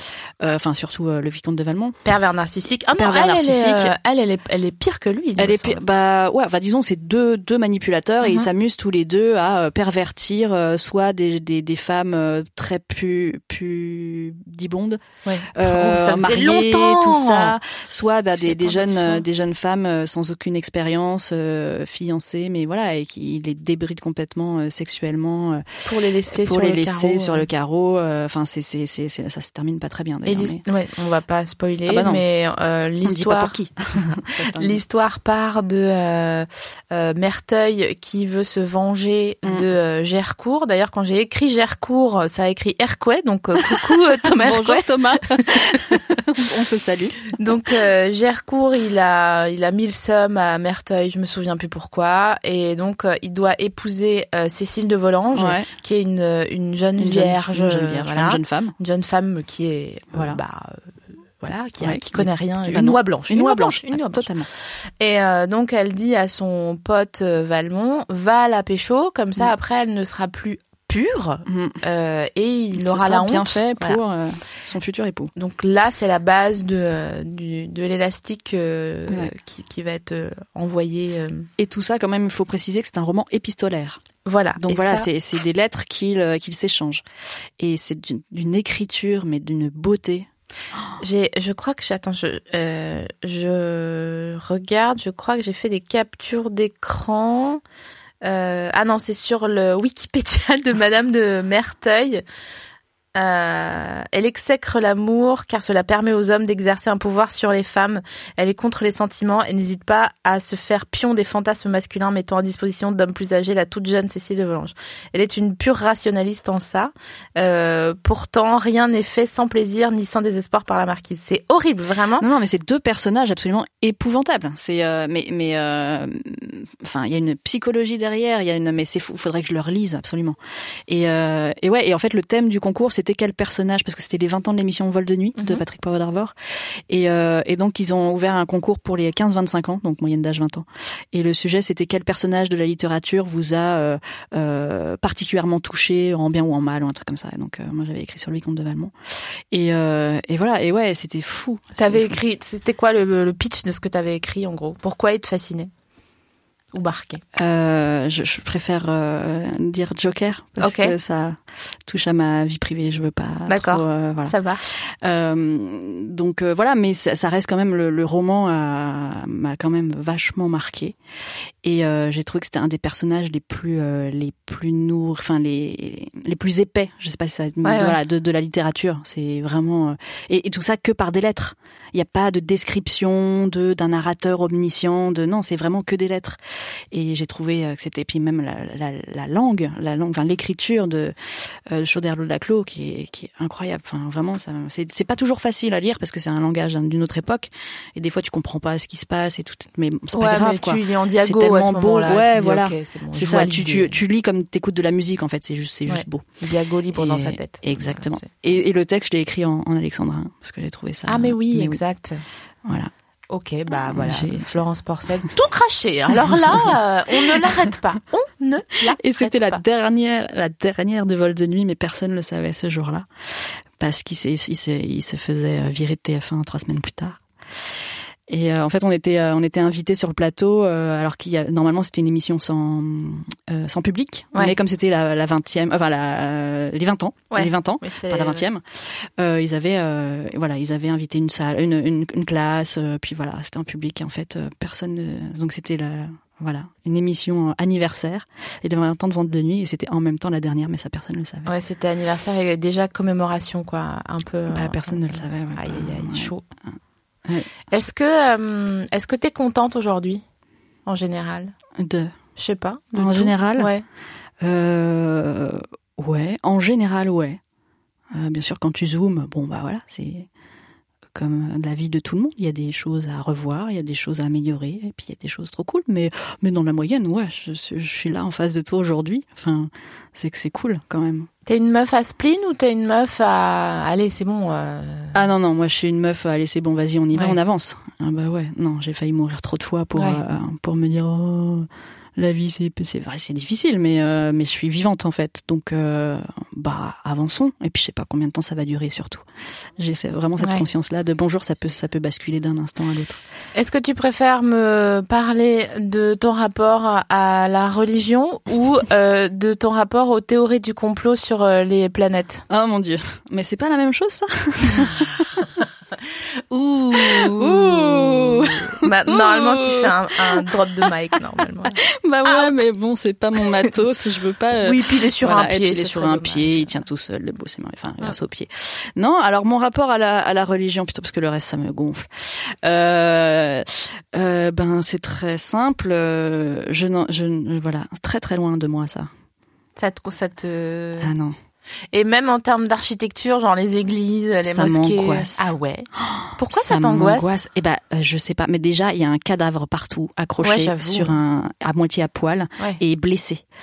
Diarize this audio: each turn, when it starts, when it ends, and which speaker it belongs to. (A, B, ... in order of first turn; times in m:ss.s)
0:00.4-0:01.9 A
0:02.0-0:05.8 B
0:03.0-0:03.9 A
0:05.4-0:15.0 A
0:08.2-0:08.5 B
0:15.2-0:17.6 B
0:15.5-0:25.6 A
0:18.4-0:19.2 B
0:25.8-0:27.5 B
0:26.3-0:30.6 A
0:30.2-0:46.0 B
0:31.9-0:32.2 A
0:33.0-0:34.8 A
0:43.6-0:47.3 A
0:47.3-1:00.8 B
0:55.3-0:55.7 A
0:57.0-0:58.7 A
1:00.1-1:00.4 A
1:01.4-1:04.3 B
1:01.8-1:04.5 A
1:05.0-1:14.0 B
1:11.5-1:11.8 A
1:12.7-1:15.3 A
1:15.4-1:21.5 B
1:21.6-1:24.0 A
1:24.2-1:25.1 B
1:24.6-1:27.0 A
1:27.6-1:30.3 A
1:31.0-1:37.6 B
1:38.2-1:42.2 B
1:43.1-2:02.3 B
2:02.2-2:16.3 A
2:15.4-2:15.6 B
2:16.9-2:28.9 A
2:29.5-2:32.2 A
2:31.8-2:35.7 B
2:36.7-2:37.2 B
2:37.4-2:44.3 A
2:40.6-2:40.9 B
2:43.5-2:44.6 B
2:44.8-2:51.0 A
2:51.6-3:06.4 A
2:57.6-2:58.0 B
3:06.9-3:11.1 A
3:11.7-3:26.2 A
3:20.1-3:24.0 B
3:25.9-3:28.3 B
3:26.9-3:31.8 A
3:31.1-3:32.2 B
3:32.6-3:32.9 A
3:33.3-3:39.6 B
3:33.7-3:34.5 A
3:36.3-3:37.6 A
3:38.9-3:43.1 A
3:43.8-3:47.2 A
3:48.3-4:11.5 A
3:57.3-3:58.4 B
4:11.5-4:16.4 B
4:14.5-4:16.3 A
4:17.2-4:17.5 A
4:17.7-4:20.2 B
4:20.8-4:21.5 B
4:21.8-4:22.1 A
4:22.4-4:23.8 B
4:22.9-4:23.7 A
4:24.4-4:27.4 A
4:28.1-4:30.3 A
4:31.1-4:41.3 A
4:41.5-4:45.2 B
4:45.1-4:59.2 A
4:50.0-4:50.2 B
4:59.8-5:03.2 A
5:00.4-5:00.6 B
5:03.5-5:12.4 B
5:12.5-5:15.5 A
5:16.5-5:22.6 B
5:16.9-5:20.9 A
5:21.8-5:39.1 A
5:24.6-5:26.8 B
5:39.8-5:41.1 B
5:41.0-5:41.4 A
5:41.9-5:47.3 B
5:44.4-5:53.4 A
5:50.4-5:51.2 B